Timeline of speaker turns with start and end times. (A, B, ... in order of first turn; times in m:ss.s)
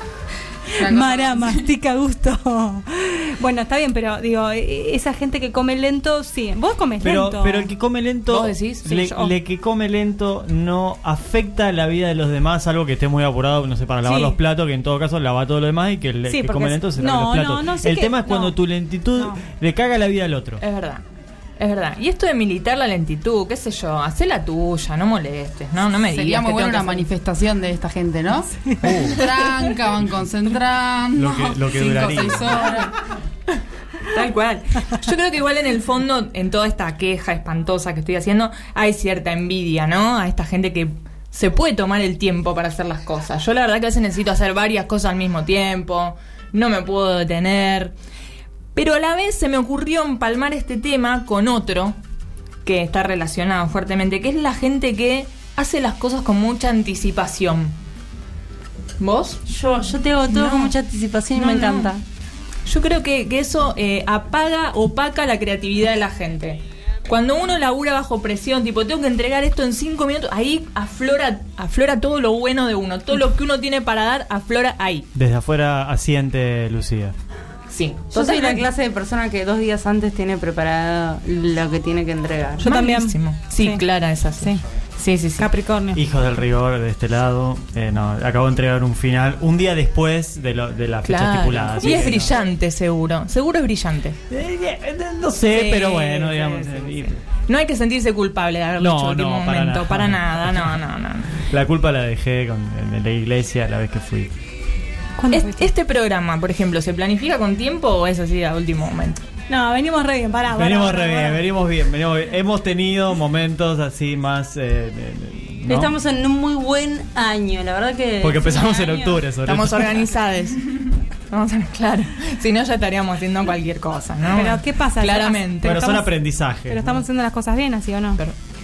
0:00.7-0:07.7 A
0:00.8-0:01.7 B
0:07.0-0:20.6 C
0:08.3-0:08.9 D
0:08.9-0:09.3 A
0:14.0-0:14.4 A
0:16.3-0:18.5 A
0:20.6-0:21.0 D
0:21.6-0:27.1 D
0:26.1-0:32.9 B
0:28.6-0:29.1 A
0:28.8-0:29.2 C
0:31.1-0:32.7 C
0:34.1-0:47.9 D
0:48.7-0:52.0 D
0:52.6-0:57.7 D
0:59.0-0:59.4 D
0:59.5-1:02.0 E
1:00.3-1:00.7 D
1:01.3-1:01.9 D
1:02.6-1:15.1 D
1:15.1-1:17.1 C
1:17.7-1:18.6 D
1:18.1-1:22.6 E
1:22.6-1:23.8 A
1:22.6-1:25.5 D
1:25.4-1:26.0 A
1:25.9-1:32.3 C
1:31.0-1:34.2 D
1:34.3-1:37.2 C
1:35.5-1:41.4 D
1:38.8-1:40.8 C
1:41.4-1:44.3 C
1:45.2-1:45.7 A
1:45.3-1:49.2 D
1:49.5-1:51.4 A
1:50.5-1:55.9 C
1:55.7-1:59.2 E
1:58.2-1:59.9 C
1:59.4-2:00.8 D
2:01.3-2:05.8 D
2:04.3-2:06.1 A
2:05.6-2:07.0 C
2:06.7-2:08.2 A